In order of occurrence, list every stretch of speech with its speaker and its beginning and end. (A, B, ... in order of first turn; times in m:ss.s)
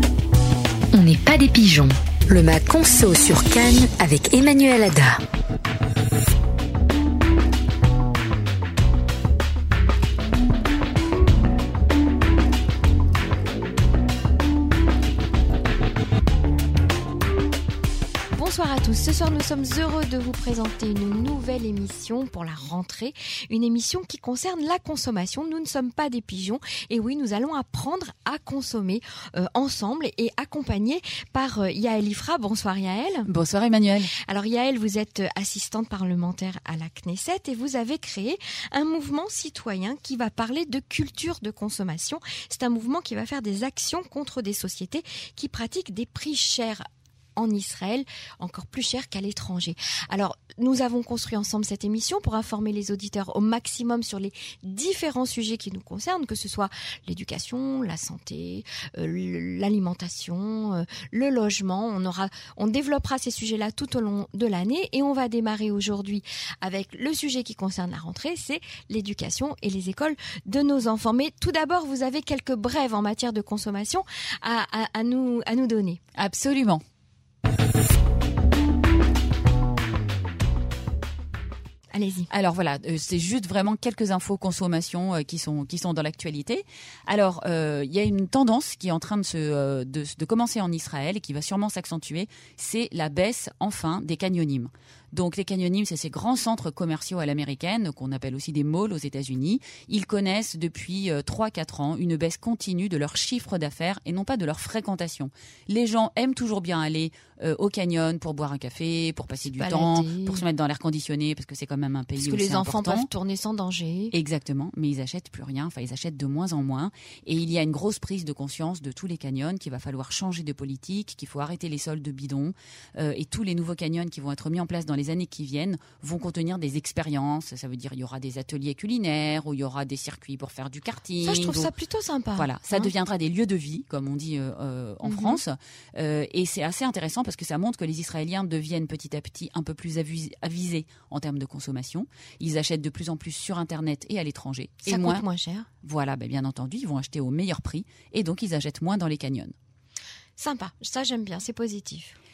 0:00.9-0:05.2 A
0:18.3-0:33.3 B
0:33.3-0:34.1 C
0:34.2-0:46.8 B
0:47.4-1:16.0 B
1:16.1-1:16.8 C
1:21.9-1:22.3 B
1:22.3-1:53.1 C
1:49.5-1:50.4 B
1:52.2-1:54.1 B
1:54.1-2:11.7 C
2:11.2-2:12.9 B
2:12.4-2:25.2 C
2:15.0-2:15.4 B
2:24.8-2:25.7 B
2:25.8-2:29.5 C
2:30.4-2:32.2 B